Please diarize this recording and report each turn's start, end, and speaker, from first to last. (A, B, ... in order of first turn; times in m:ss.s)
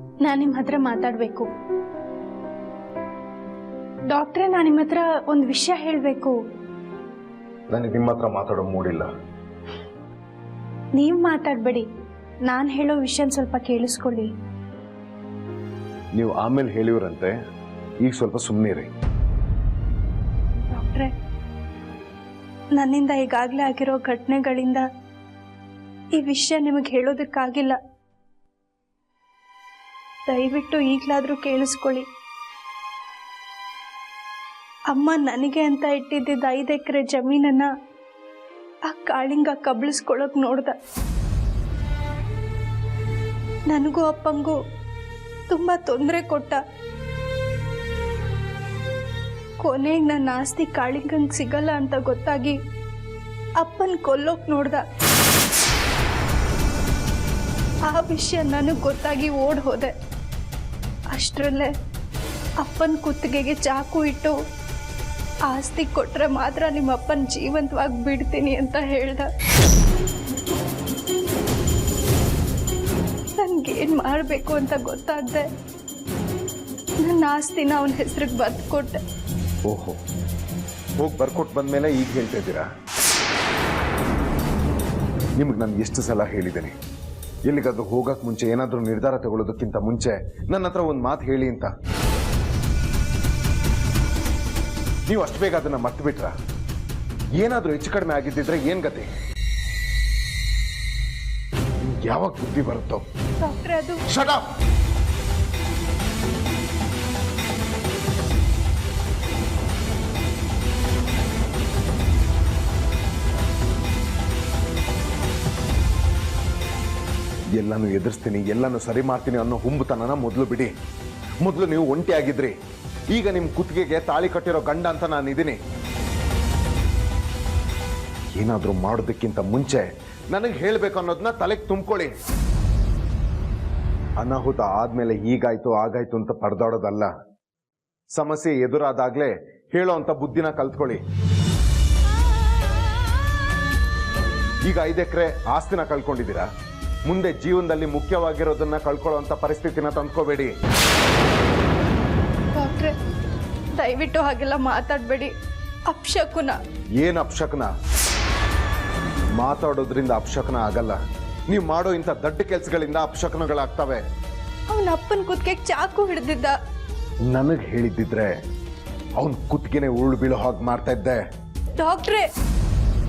0:00.2-0:01.5 A
0:04.1-0:06.4 A
0:07.7-0:09.1 B
0:11.0-0:11.9 A
0:12.5-0:14.3 A
0:16.1-0:17.3 B
0:18.0-0:18.9 B
0:20.7-0:21.1 A
0:22.8-0:24.8 A
0:26.1-0:27.8 A
0:30.3-0:32.0 A
0:34.9-0:37.7 A
0:38.9-0:40.7 A
0:43.7-0:44.6 A
0:45.5-0:46.6 A
0:49.6-0:52.6 A
0:53.6-0:54.8 A
0:57.9-0:59.9 A
1:01.1-1:01.7 A
1:02.6-1:04.4 A
1:05.5-1:09.3 A
1:13.4-1:15.5 A
1:17.0-1:19.0 A
1:19.7-1:20.0 B
1:21.0-1:22.7 B
1:25.4-1:26.7 B
1:27.4-1:31.7 B
1:35.1-1:36.3 B
1:37.4-1:39.1 B
1:41.8-1:43.0 B
1:43.4-1:44.0 A
1:44.1-1:44.4 B
1:57.5-2:00.7 B
2:01.4-2:02.5 B
2:03.1-2:05.6 B
2:08.3-2:12.1 B
2:14.2-2:17.1 B
2:18.1-2:21.0 B
2:24.6-2:26.5 B
2:27.1-2:30.5 B
2:32.6-2:32.9 A
2:33.8-2:35.3 A
2:35.9-2:36.6 A
2:37.0-2:37.7 B
2:39.4-2:41.0 B
2:41.5-2:44.0 B
2:44.7-2:46.5 A
2:47.2-2:48.3 B
2:49.2-2:51.2 B
2:51.8-2:52.2 A